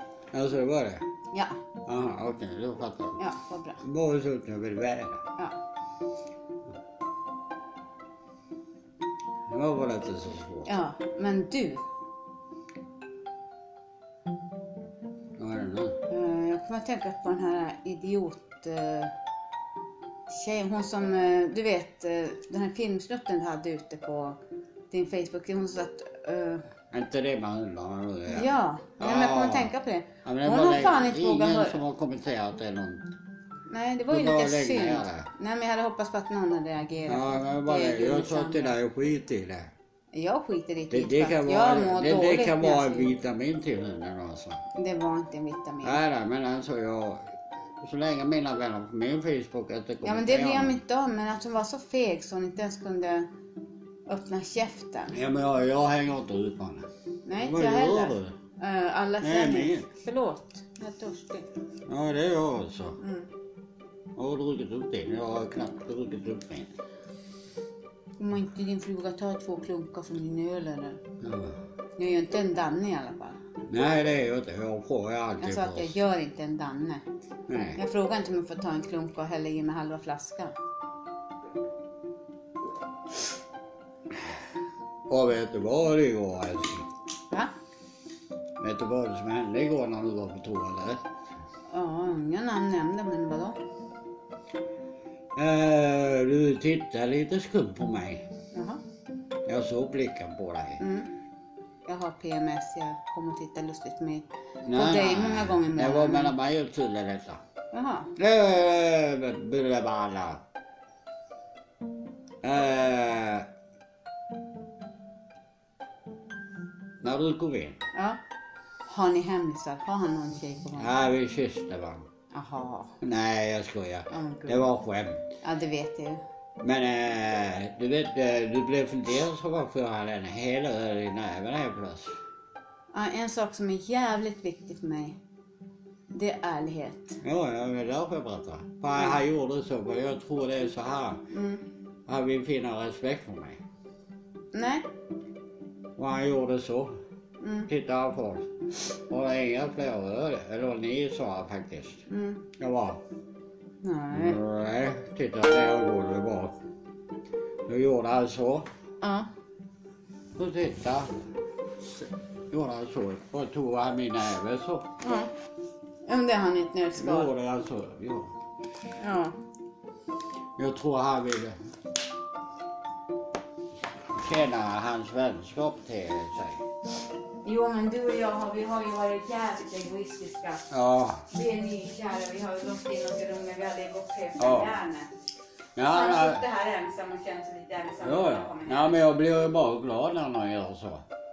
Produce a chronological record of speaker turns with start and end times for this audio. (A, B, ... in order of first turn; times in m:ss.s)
0:00.3-0:01.1 A
0:01.3-0:01.6 B
0:01.9-0:03.2 A
0:03.2-0:03.8 B
0:03.8-0:05.2 A
0:09.5-0:10.7 A
0:10.7-0:11.8 B
0:15.4-0:16.0 A
0:16.1-0:19.1 B
0:20.3-0:24.4 B
0:24.9-0:26.6 B
0:26.9-0:29.7 A
0:28.3-0:31.8 B
0:30.2-0:33.1 A
0:33.7-0:38.8 B
0:34.1-0:35.3 A
0:37.1-0:39.7 A
0:40.1-0:43.1 B
0:40.9-0:44.6 A
0:44.8-0:46.0 B
0:45.8-0:50.8 A
0:50.0-0:53.3 B
0:54.1-0:55.2 B
0:55.1-0:58.4 A
0:57.2-1:01.5 B
0:59.2-0:59.9 A
1:01.9-1:03.0 A
1:03.0-1:03.3 B
1:04.2-1:06.7 A
1:08.2-1:11.0 B
1:11.2-1:11.6 A
1:12.0-1:13.4 B
1:13.7-1:16.0 A
1:15.4-1:17.0 B
1:17.5-1:17.8 A
1:17.8-1:20.5 B
1:25.1-1:26.9 A
1:28.6-1:31.0 A
1:31.7-1:33.6 B
1:35.4-1:38.2 A
1:38.5-1:38.8 B
1:39.5-1:40.8 A
1:40.8-1:41.1 B
1:41.9-1:46.4 B
1:44.6-1:47.4 A
1:47.7-1:48.1 B
1:48.2-1:50.4 A
1:52.4-1:53.5 A
1:57.0-1:57.8 A
1:57.9-1:58.2 B
1:58.9-2:01.0 B
2:00.8-2:02.1 A
2:02.3-2:03.0 B
2:03.0-2:05.2 A
2:04.1-2:04.7 B
2:05.4-2:06.2 B
2:06.6-2:12.2 A
2:12.9-2:15.2 B
2:16.1-2:17.2 B
2:17.2-2:21.2 A
2:19.0-2:19.2 B
2:21.3-2:21.6 B
2:22.1-2:23.6 A
2:24.5-2:24.8 B
2:26.0-2:27.0 A
2:27.4-2:27.7 B
2:27.7-2:32.0 A
2:32.1-2:32.4 B
2:32.6-2:33.0 A
2:33.8-2:34.4 B
2:34.1-2:36.6 A
2:37.7-2:38.7 A
2:39.0-2:39.3 B
2:40.4-2:41.2 A
2:41.8-2:44.9 A
2:45.0-2:45.3 B
2:46.1-2:47.3 B
2:47.0-2:48.4 A
2:49.0-2:49.4 B
2:50.6-2:51.6 A
2:54.1-2:56.6 A
2:57.4-3:00.6 B
3:00.7-3:01.2 A
3:01.3-3:05.1 B
3:04.4-3:04.8 A
3:05.8-3:06.4 A
3:05.9-3:09.0 B
3:08.0-3:11.0 A